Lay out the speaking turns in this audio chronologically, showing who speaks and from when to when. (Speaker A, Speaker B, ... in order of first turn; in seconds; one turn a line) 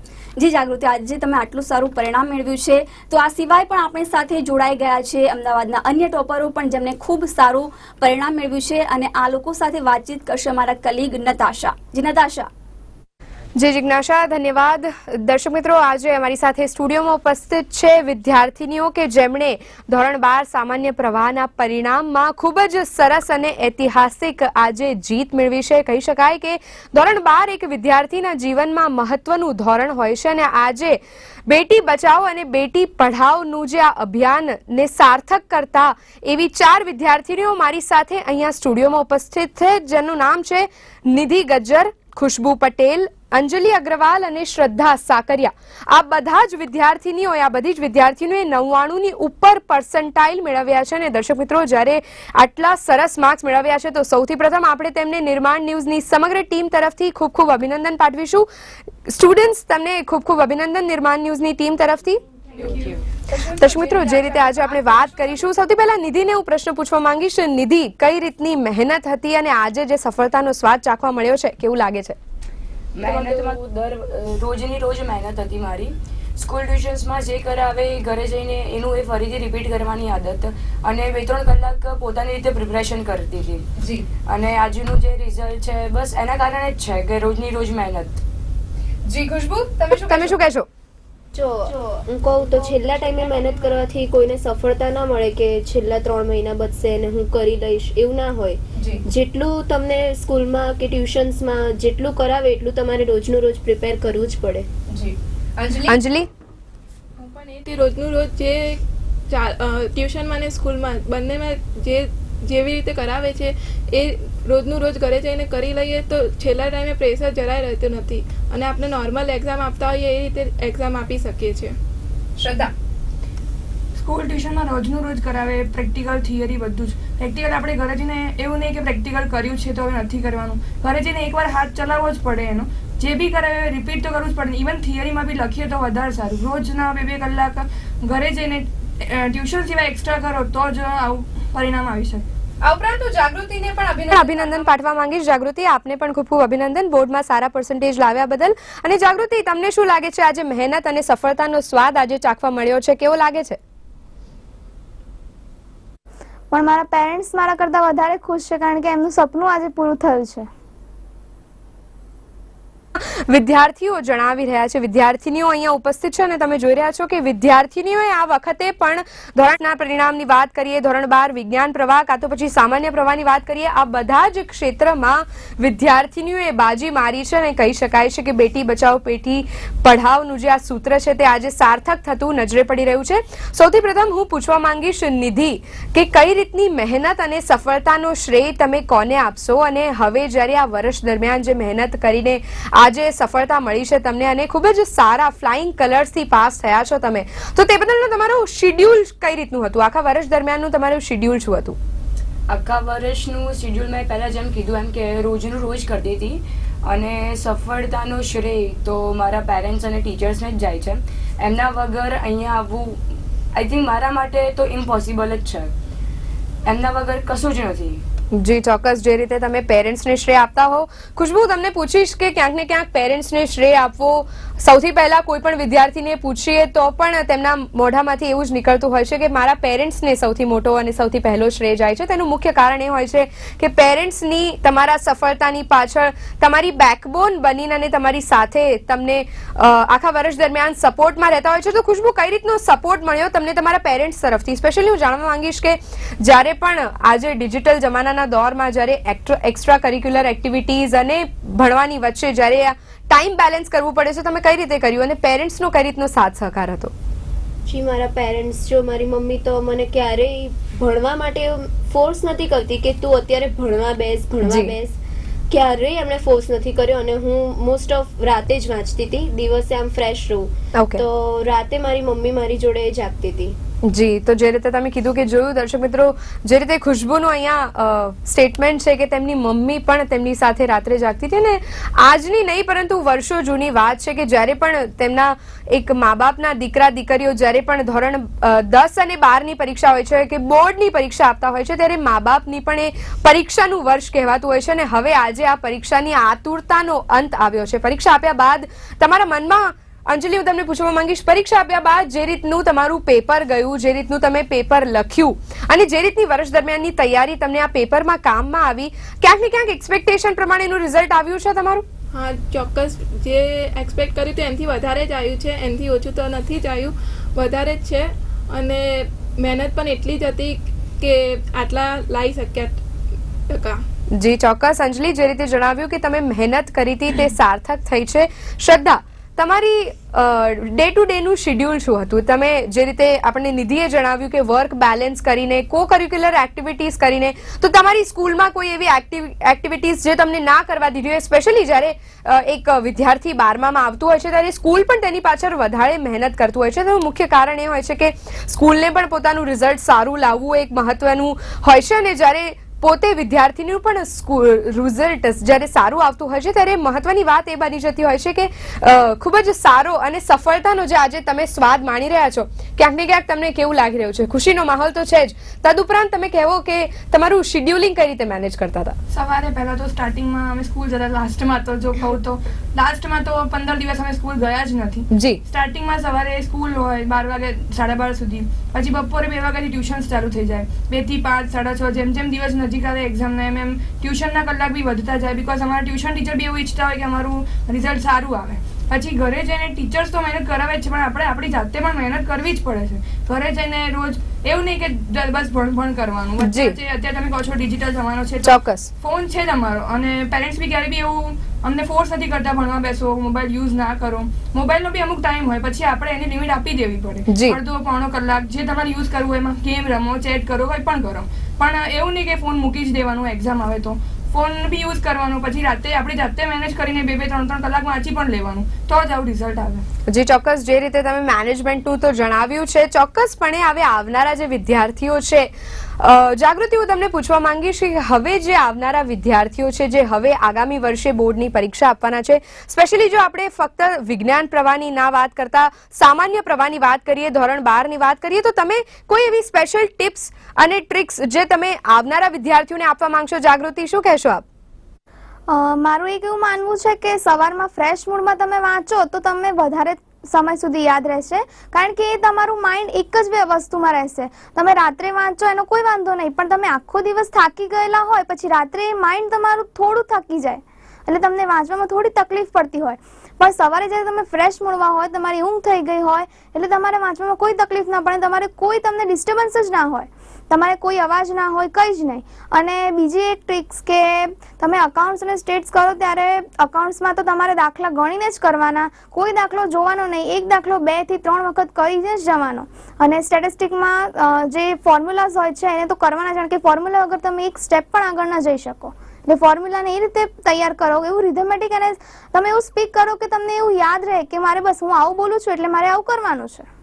Speaker A: 0.4-12.5
Speaker B: 13.6-58.5
Speaker B: 59.0-62.2
Speaker C: 62.6-64.7
Speaker B: 63.3-72.2
Speaker D: 72.9-83.7
Speaker B: 73.1-73.5
Speaker B: 83.8-84.1
Speaker D: 84.3-88.2
Speaker B: 89.1-90.7
Speaker E: 91.3-104.7
Speaker B: 98.8-99.0
Speaker B: 104.9-106.3
Speaker F: 107.2-121.8
Speaker B: 122.4-122.7
Speaker C: 124.0-142.3
Speaker B: 142.6-153.6
Speaker C: 144.1-144.6
Speaker G: 156.5-160.5
Speaker B: 163.0-201.8
Speaker D: 202.5-213.0
Speaker D: 213.5-215.7
Speaker D: 216.7-218.0
Speaker B: 218.3-256.9
Speaker E: 257.7-264.9
Speaker B: 264.4-264.7
Speaker E: 265.5-273.6
Speaker B: 270.7-271.0
Speaker B: 273.9-311.9
Speaker F: 312.1-322.8
Speaker F: 323.5-323.8
Speaker B: 324.1-369.0
Speaker C: 369.1-419.8
Speaker B: 375.1-375.4
Speaker B: 396.4-396.8
Speaker B: 398.4-398.9
Speaker B: 407.3-407.6
Speaker B: 420.1-444.4
Speaker G: 445.5-496.6